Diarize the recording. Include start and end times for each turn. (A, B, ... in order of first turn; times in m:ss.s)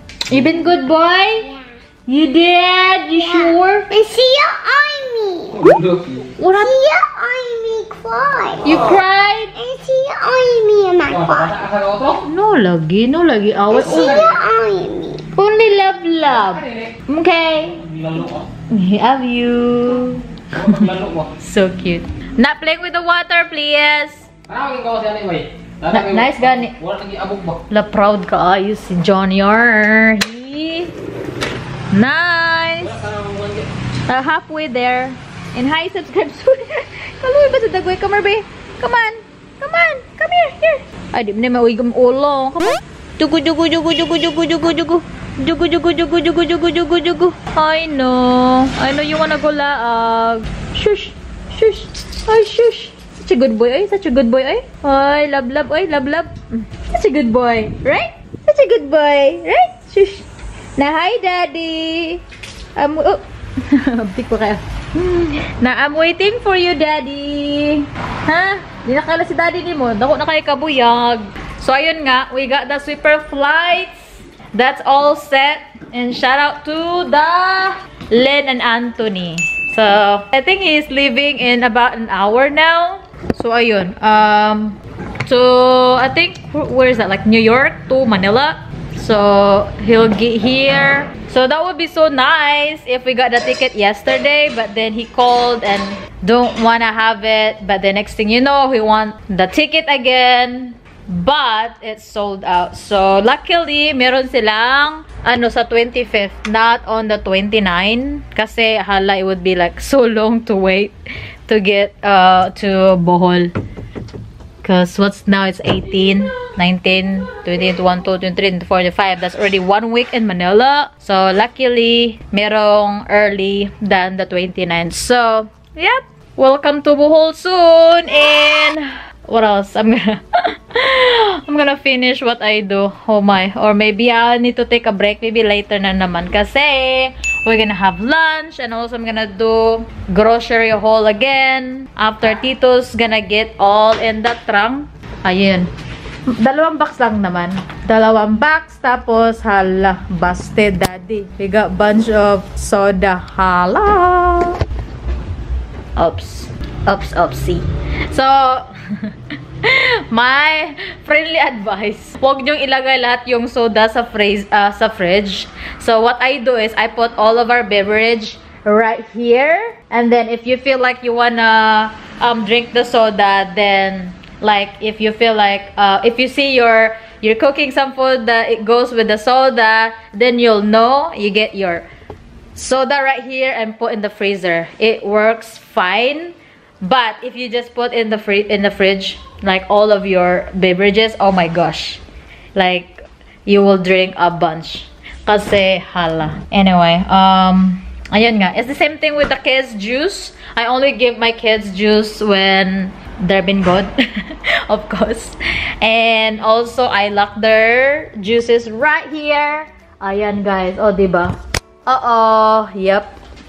0:00.3-0:01.5 A
0:01.4-0:01.8 B
0:02.1-0:03.9 A
0:03.2-0:05.8 B
0:06.3-0:06.8 A
0:06.6-0:08.9 B
0:08.6-0:09.6 A
0:09.6-0:11.5 B
0:11.1-0:12.2 C
0:12.2-0:14.3 A
0:13.7-0:15.2 B
0:13.8-0:14.4 C
0:15.3-0:17.8 A
0:16.3-0:16.9 C
0:17.7-0:18.5 C
0:18.7-0:20.8 A
0:20.5-0:21.3 C
0:21.4-0:24.3 A
0:24.5-0:27.6 C
0:25.9-0:26.8 A
0:27.7-0:31.0 A
0:31.9-0:33.0 A
0:32.8-0:33.7 C
0:34.1-1:00.2 A
1:00.8-1:02.2 A
1:02.8-1:51.0 A
1:51.5-1:53.5 A
1:54.6-2:25.7 A
2:26.3-2:34.6 A
2:36.0-3:01.9 A
3:02.6-3:12.0 A
3:12.6-3:33.2 A